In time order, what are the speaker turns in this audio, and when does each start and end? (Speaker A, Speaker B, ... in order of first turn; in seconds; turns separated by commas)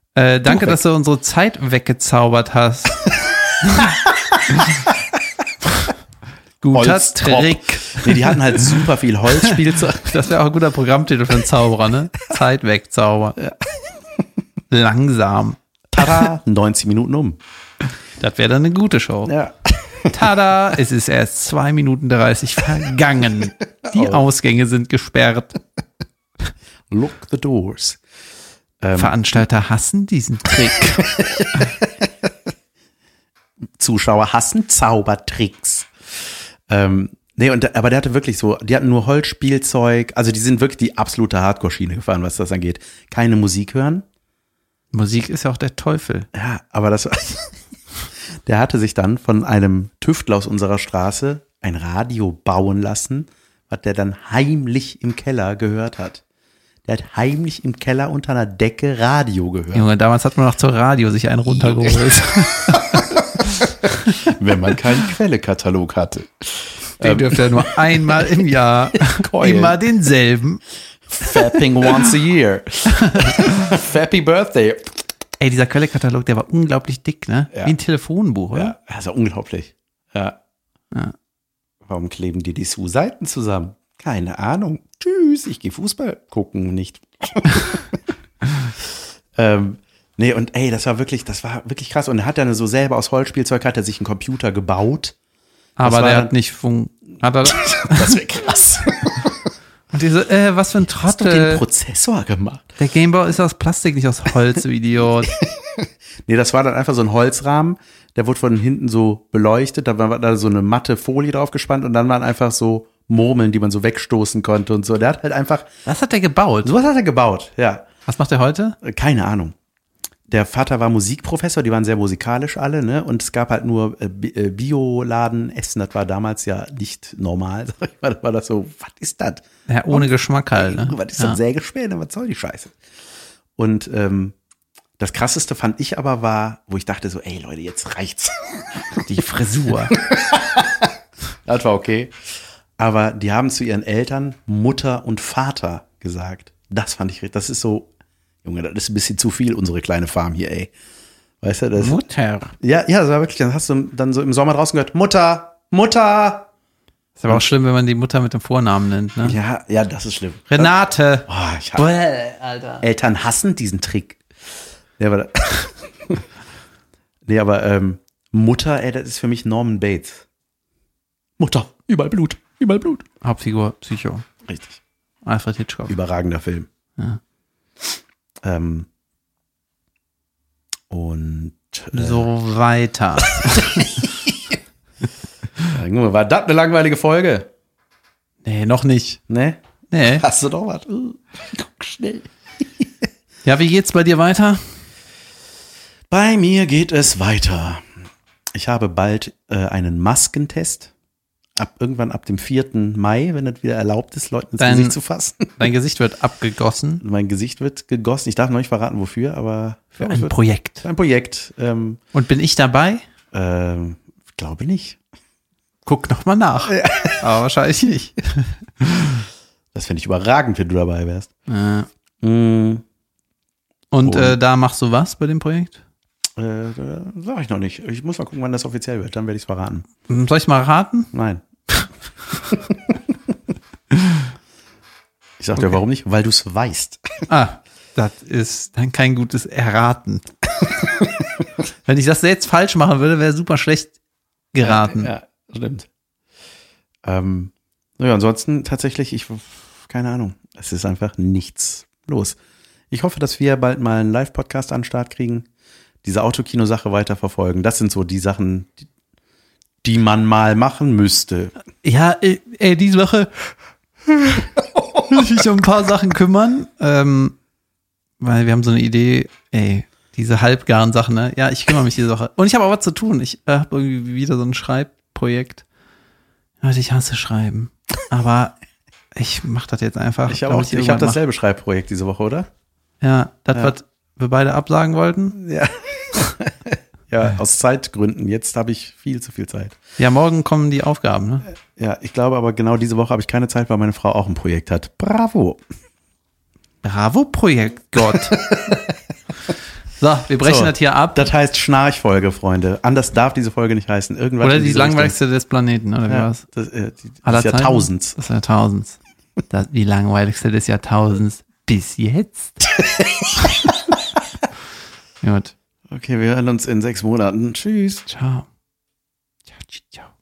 Speaker A: 0.1-3.9, Speaker B: 0.4-0.8, Speaker B: 4.0-4.9, Speaker A: 4.5-4.8, Speaker A: 6.6-8.7, Speaker B: 6.7-10.2, Speaker A: 9.4-13.4, Speaker B: 13.4-13.6, Speaker A: 14.7-16.3, Speaker B: 15.9-17.4, Speaker A: 18.2-19.3, Speaker B: 19.3-20.2, Speaker A: 20.1-25.6, Speaker B: 23.8-24.2, Speaker B: 26.9-28.0, Speaker B: 28.8-29.4, Speaker A: 28.9-31.1, Speaker B: 31.0-32.3, Speaker B: 33.8-44.0, Speaker A: 44.9-46.3, Speaker B: 46.3-47.6, Speaker B: 48.5-56.2, Speaker B: 56.9-59.9, Speaker A: 59.7-63.6, Speaker B: 61.5-62.0, Speaker B: 62.7-63.6, Speaker B: 64.2-68.3, Speaker A: 67.0-70.6, Speaker B: 68.9-69.8, Speaker B: 71.1-75.0, Speaker A: 71.2-71.9, Speaker A: 73.0-73.5, Speaker A: 75.4-78.7, Speaker B: 78.5-80.4, Speaker B: 81.8-88.0, Speaker B: 89.3-95.1, Speaker A: 95.8-98.2, Speaker B: 95.8-96.3, Speaker B: 97.5-99.4, Speaker A: 99.9-101.6, Speaker B: 101.0-102.7, Speaker A: 102.8-105.3, Speaker B: 105.4-115.7, Speaker A: 115.8-116.7, Speaker B: 116.6-117.9, Speaker A: 118.1-118.8, Speaker B: 118.8-119.5, Speaker B: 120.3-132.7, Speaker A: 129.7-131.4, Speaker B: 133.6-134.3, Speaker B: 135.0-139.0, Speaker A: 139.0-139.9, Speaker B: 139.9-140.9, Speaker B: 141.4-142.1, Speaker B: 142.8-147.9, Speaker B: 148.4-150.7, Speaker B: 151.4-152.0, Speaker A: 151.8-152.5, Speaker B: 152.6-156.5, Speaker A: 157.2-159.3, Speaker B: 159.2-160.7, Speaker A: 160.5-162.8, Speaker B: 161.3-161.8, Speaker B: 162.8-164.2, Speaker B: 165.0-166.2, Speaker B: 167.2-170.2, Speaker B: 171.4-173.0, Speaker A: 173.2-174.3, Speaker B: 174.4-174.8, Speaker A: 175.2-175.9, Speaker B: 175.9-176.7, Speaker B: 178.4-178.9, Speaker B: 180.9-182.3, Speaker A: 181.9-184.0, Speaker B: 183.5-184.6, Speaker B: 185.7-187.5, Speaker A: 188.4-189.2, Speaker B: 189.3-189.6, Speaker A: 189.9-190.2, Speaker B: 190.2-192.9, Speaker A: 193.4-194.7, Speaker B: 196.1-197.9, Speaker B: 198.5-200.9, Speaker B: 201.6-205.7, Speaker A: 204.6-205.0, Speaker A: 205.6-207.0, Speaker B: 207.0-212.0, Speaker A: 210.0-210.8, Speaker A: 212.1-213.0, Speaker B: 213.3-215.0, Speaker A: 215.8-219.2, Speaker B: 216.7-217.2, Speaker B: 219.7-221.3, Speaker A: 221.5-221.9, Speaker B: 222.2-222.8, Speaker A: 223.9-225.8, Speaker B: 224.0-224.4, Speaker B: 226.4-229.9, Speaker A: 230.1-231.1, Speaker B: 231.1-231.4, Speaker B: 232.5-233.0, Speaker A: 233.9-234.2, Speaker B: 235.4-237.2, Speaker A: 237.3-240.2, Speaker B: 240.8-241.4, Speaker A: 241.8-243.9, Speaker A: 244.5-245.1, Speaker B: 244.6-245.9, Speaker B: 247.0-252.4, Speaker B: 252.9-255.4, Speaker B: 256.0-258.9, Speaker B: 259.8-261.5, Speaker A: 261.8-263.5, Speaker A: 265.1-267.4, Speaker A: 268.2-275.6, Speaker A: 276.6-278.6, Speaker A: 279.1-281.2, Speaker B: 280.3-282.5, Speaker A: 283.0-285.4, Speaker B: 285.3-289.8, Speaker A: 290.0-291.5, Speaker B: 291.6-295.6, Speaker A: 296.8-298.4, Speaker B: 298.3-298.9, Speaker A: 300.0-301.2, Speaker B: 300.4-305.2, Speaker A: 304.4-306.4, Speaker B: 306.1-308.1, Speaker A: 307.2-312.6, Speaker B: 312.7-313.7, Speaker A: 315.2-315.5, Speaker B: 315.9-318.1, Speaker A: 318.1-318.5, Speaker A: 319.5-320.1